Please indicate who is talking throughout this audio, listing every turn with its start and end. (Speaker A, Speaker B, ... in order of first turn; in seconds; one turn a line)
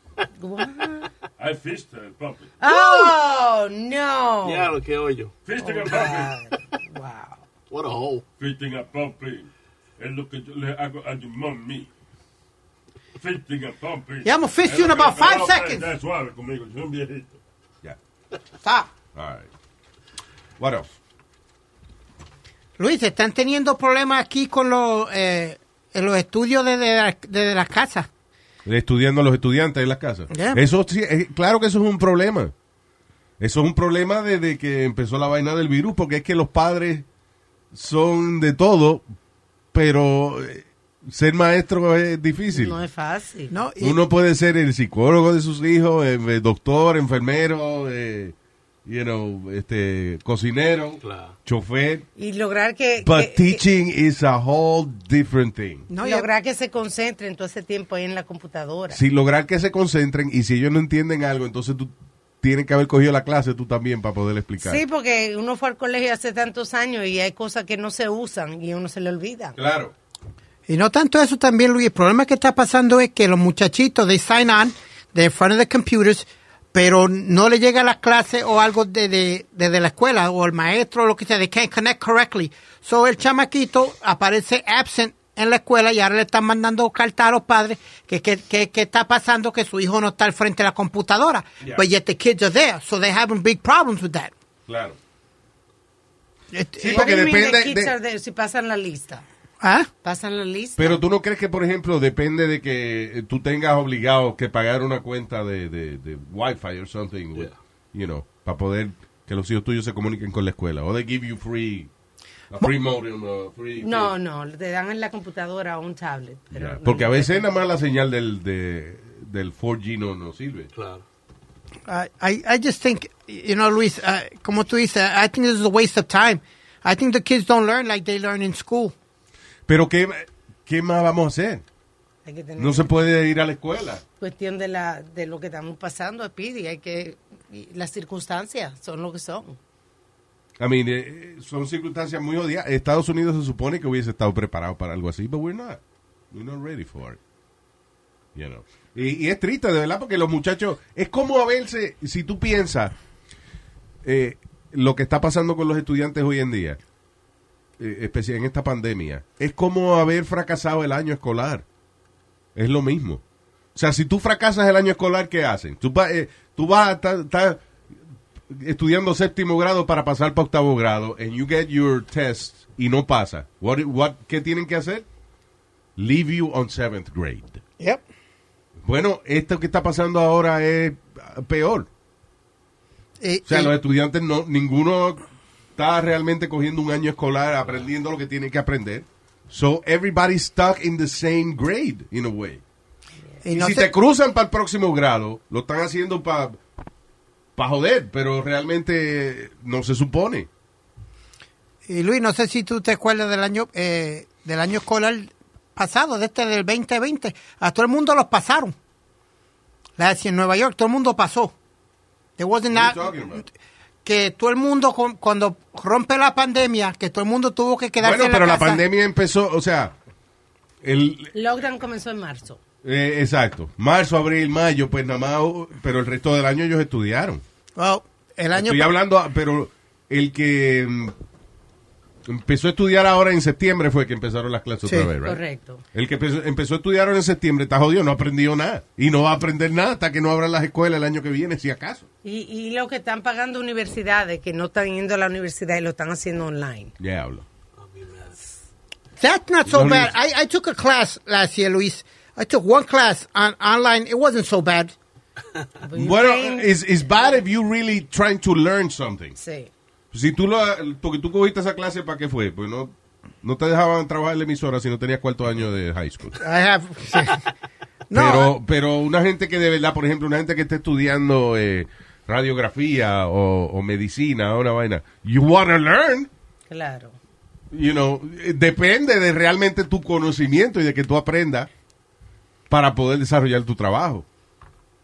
Speaker A: 0.3-1.1
Speaker B: 1.4-2.5
Speaker A: 2.6-4.8
Speaker C: 4.4-5.3
Speaker B: 5.5-6.3
Speaker A: 5.6-7.4
Speaker C: 7.7-8.2
Speaker B: 8.4-11.9
Speaker B: 13.2-17.4
Speaker D: 14.2-15.9
Speaker D: 18.6-18.9
Speaker E: 19.1-19.5
Speaker E: 20.6-20.9
Speaker D: 22.8-28.1
Speaker E: 28.7-32.5
Speaker D: 30.3-30.6
Speaker E: 33.4-37.1
Speaker E: 37.7-39.0
Speaker E: 39.7-42.8
Speaker A: 42.5-43.6
Speaker D: 43.5-44.0
Speaker E: 43.8-48.3
Speaker E: 48.9-52.1
Speaker C: 51.0-51.4
Speaker A: 52.2-53.6
Speaker E: 53.0-55.9
Speaker D: 55.9-56.3
Speaker A: 56.0-59.0
Speaker E: 58.9-64.8
Speaker A: 64.6-69.6
Speaker E: 69.6-69.9
Speaker D: 70.7-94.3
Speaker E: 94.7-95.0
Speaker D: 96.5-97.1
Speaker E: 96.8-97.9
Speaker A: 96.8-99.2
Speaker D: 99.6-99.9
Speaker A: 100.0-101.0
Speaker E: 100.8-111.9
Speaker E: 112.5-114.1
Speaker A: 113.8-117.4
Speaker E: 116.5-120.7
Speaker C: 120.7-121.0
Speaker D: 121.9-128.9
Speaker E: 129.7-131.6
Speaker A: 132.2-132.9
Speaker E: 132.6-134.0
Speaker A: 134.2-139.6
Speaker E: 140.6-145.8
Speaker E: 146.3-147.2
Speaker E: 148.3-152.9
Speaker E: 154.0-156.8
Speaker E: 157.8-161.7
Speaker E: 162.6-163.2
Speaker E: 163.8-167.6
Speaker E: 168.5-175.1
Speaker E: 176.0-177.6
Speaker E: 178.8-181.9
Speaker D: 183.2-183.7
Speaker E: 183.5-185.2
Speaker E: 185.8-192.6
Speaker D: 193.4-193.9
Speaker E: 193.5-196.6
Speaker E: 197.6-200.5
Speaker D: 201.9-208.8
Speaker D: 210.0-211.5
Speaker D: 212.4-213.1
Speaker E: 212.7-213.4
Speaker D: 214.1-218.8
Speaker E: 218.0-219.9
Speaker E: 220.8-221.3
Speaker A: 221.3-222.6
Speaker E: 222.8-227.4
Speaker D: 227.8-228.9
Speaker E: 228.5-231.1
Speaker E: 232.3-235.4
Speaker D: 234.8-235.1
Speaker A: 235.2-235.8
Speaker E: 235.9-242.1
Speaker A: 242.2-246.9
Speaker E: 247.0-247.4
Speaker C: 247.8-248.4
Speaker D: 249.2-254.9
Speaker E: 249.7-250.1
Speaker A: 255.8-257.4
Speaker E: 255.9-259.4
Speaker A: 259.4-259.7
Speaker E: 260.1-266.4
Speaker D: 266.4-267.5
Speaker D: 268.1-268.5
Speaker E: 268.1-276.3
Speaker A: 276.7-277.2
Speaker E: 277.7-281.7
Speaker E: 282.7-284.3